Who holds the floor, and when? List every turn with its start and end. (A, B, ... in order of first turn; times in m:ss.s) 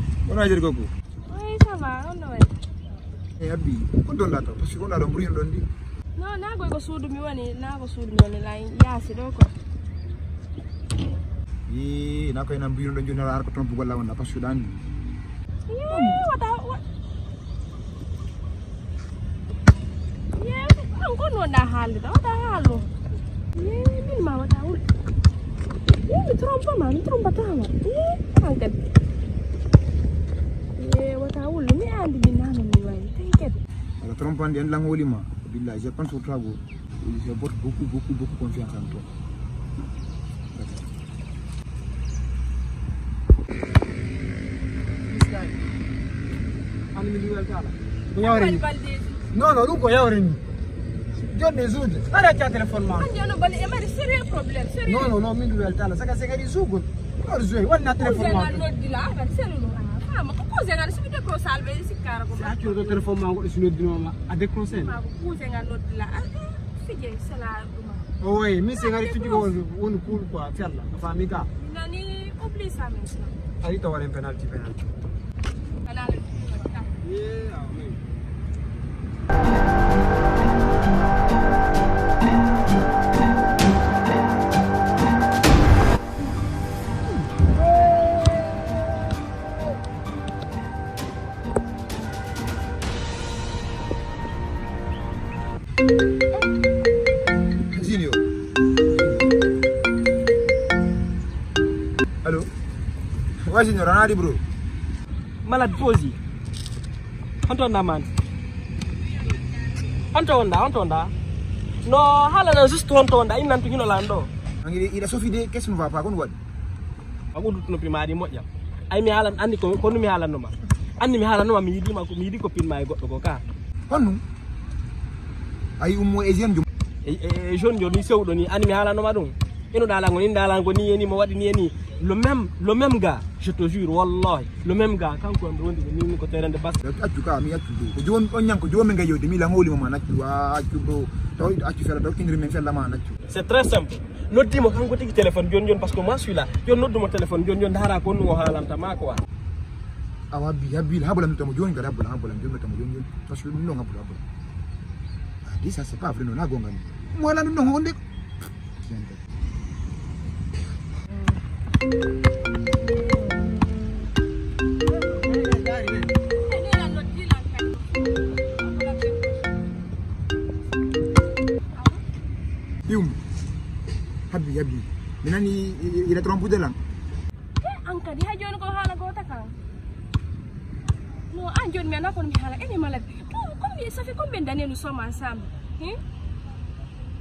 0:00.2-0:00.9 A
0:01.2-0:02.5 B
0:03.4-0:05.6 A
0:06.2-0:09.5 B
0:11.7-0:14.8 A
0:15.7-0:16.8 B
0:15.9-0:16.2 A
0:20.4-0:22.9 B
0:23.6-0:24.8 B
0:26.0-0:28.8 B
0:30.8-0:33.6 B
0:34.0-0:39.1 A
0:40.5-0:40.9 A
0:45.1-0:45.5 C
0:46.9-0:48.6 C
0:48.2-0:49.2 B
0:49.3-0:50.4 C
0:51.3-0:53.1 C
0:53.0-0:55.1 B
0:54.8-0:58.6 C
0:58.0-1:03.0 B
1:02.3-1:04.9 C
1:04.7-1:08.0 B
1:08.2-1:11.5 C
1:08.8-1:09.5 B
1:11.6-1:13.3 B
1:13.6-1:14.8 C
1:15.8-1:16.9 B
1:17.0-1:18.0 C
1:37.7-1:38.2 A
1:42.2-1:42.5 A
1:43.4-1:44.4 A
1:45.4-1:46.2 D
1:47.4-1:48.1 D
1:50.1-1:51.1 D
1:51.8-1:54.3 D
1:54.6-1:56.4 A
1:57.3-2:03.4 D
2:03.9-2:04.2 A
2:05.8-2:06.7 A
2:07.0-2:16.8 D
2:16.8-2:23.2 A
2:23.3-2:29.2 D
2:30.3-2:34.2 A
2:35.4-2:38.0 A
2:38.8-2:39.2 A
2:45.0-2:46.1 C
2:46.4-2:49.4 B
2:51.8-2:52.0 B
2:52.9-2:53.2 A
2:54.3-2:56.8 A
2:57.6-2:59.5 B
3:01.3-3:06.0 B